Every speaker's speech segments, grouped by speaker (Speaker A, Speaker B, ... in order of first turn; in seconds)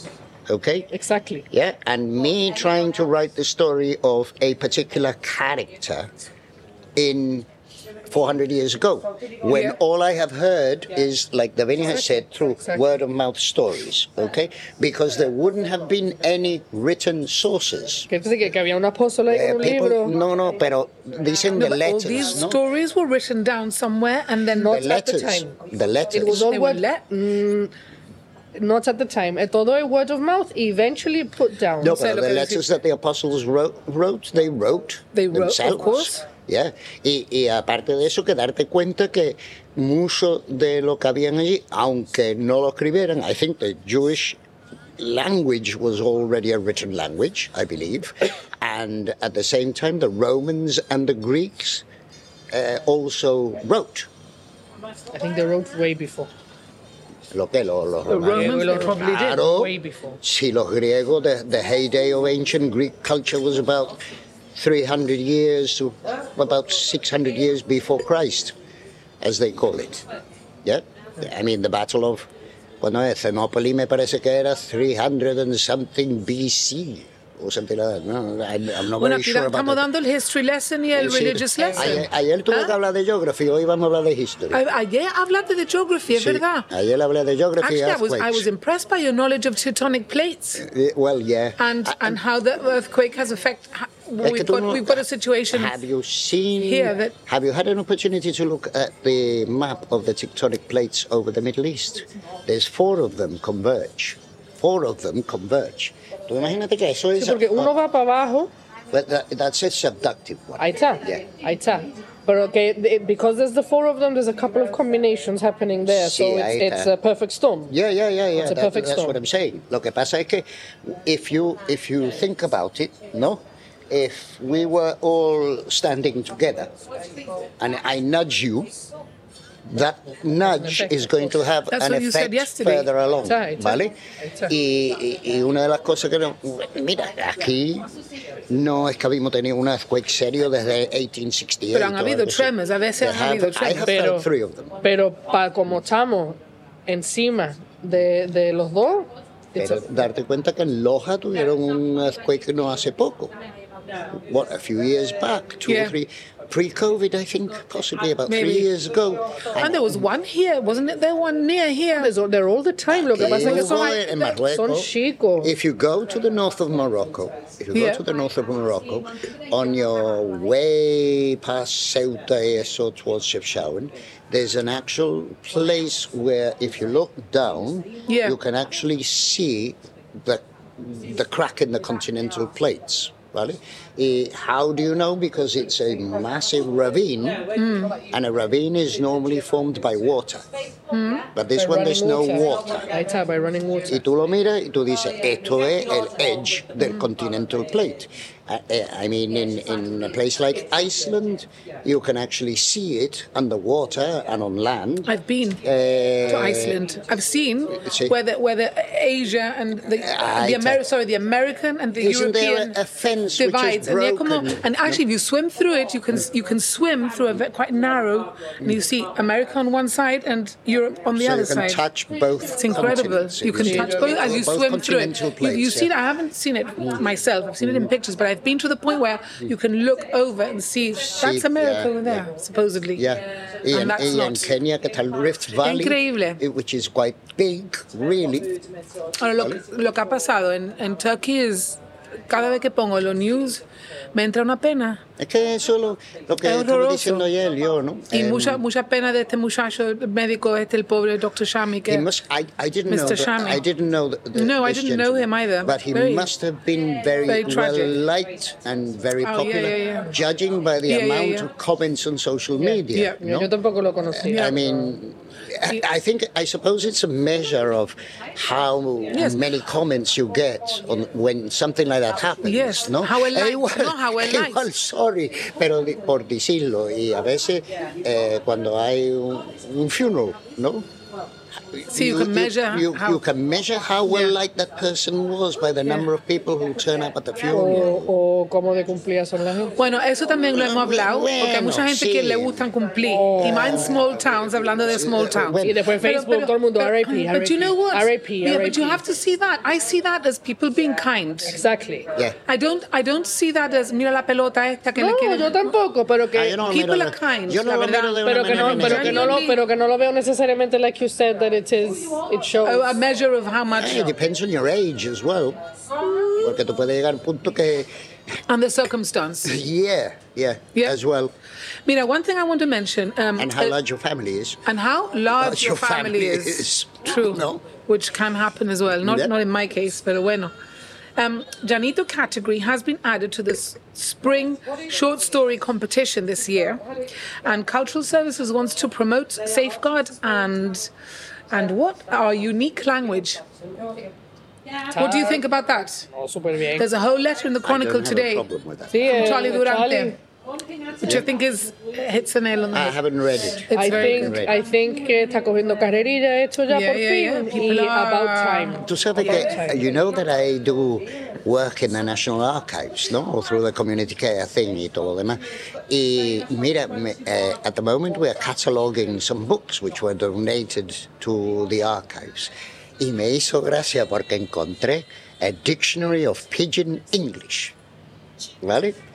Speaker A: 0.5-0.9, 1.5-6.1, 7.0-7.5, 8.1-18.1, 19.3-22.6, 24.7-26.5, 31.8-44.4, 45.0-51.9, 52.5-54.1, 57.3-64.0, 64.5-68.5, 69.2-70.0, 70.7-72.3, 72.8-79.8, 81.0-84.6, 86.1-88.5, 90.6-92.2, 94.2-107.7, 108.9-111.2, 115.9-116.9, 117.7-126.7, 127.6-128.7, 129.7-134.0, 134.5-137.9, 138.5-144.8, 149.6-153.3, 154.1-160.1, 162.9-190.5, 191.3-192.9, 193.9-206.8, 207.8-208.2, 210.0-210.8, 212.0-215.0, 221.1-225.9, 227.6-227.9, 231.2-232.3, 233.0-238.6, 245.2-248.6, 251.9-263.5, 264.1-280.9, 281.7-288.1, 290.5-292.7, 293.4-294.0, 294.9-295.8, 306.3-309.4, 313.8-315.6, 316.4-317.9, 319.4-321.3, 323.4-324.6, 325.4-327.7, 329.0-329.3, 347.6-349.1, 352.7-354.6, 358.8-377.8, 378.6-379.0
Speaker B: 0.9-1.5, 18.1-20.2, 24.6-25.6, 26.1-27.7, 28.6-32.0, 55.1-56.3, 58.2-60.2, 107.2-108.5, 110.6-117.8, 118.4-119.2, 130.5-131.4, 133.2-134.5, 143.8-144.3, 144.8-150.0, 162.0-165.6, 191.6-194.0, 262.6-264.9, 287.5-289.8, 293.0-293.8, 295.6-299.0, 301.5-302.1, 305.0-306.7, 308.2-312.9, 344.9-345.4, 346.1-346.9, 348.9-350.2, 353.7-359.9
Speaker C: 21.6-24.9, 26.3-27.0, 31.9-32.7, 35.1-36.2, 58.1-59.4, 79.0-82.7, 84.5-86.7, 87.6-90.6, 91.6-95.7, 96.6-97.1, 131.7-132.9, 141.7-143.9, 155.7-156.0, 158.3-158.7, 159.6-162.1, 163.2-164.3, 167.7-168.0, 178.1-178.4, 187.6-188.0, 190.9-191.3, 205.1-205.6, 206.3-212.8, 213.4-221.8, 222.5-233.0, 233.7-234.5, 235.6-236.4, 239.2-241.8, 242.3-243.6, 244.1-245.0, 246.4-247.3, 248.1-252.1, 252.9-253.6, 254.3-256.3, 257.3-258.0, 259.2-260.1, 260.9-261.5, 262.9-263.2, 264.3-264.6, 269.1-269.4, 272.4-274.7, 281.9-283.2, 284.1-284.3, 289.8-301.6, 302.5-305.7, 306.6-309.6, 312.6-314.1, 318.5-319.5, 321.9-323.7, 324.7-330.5, 331.2-336.9, 337.4-340.9, 341.5-343.4, 344.9-346.1, 346.8-348.5, 349.1-350.2, 351.0-353.0, 353.7-354.4, 356.7-358.9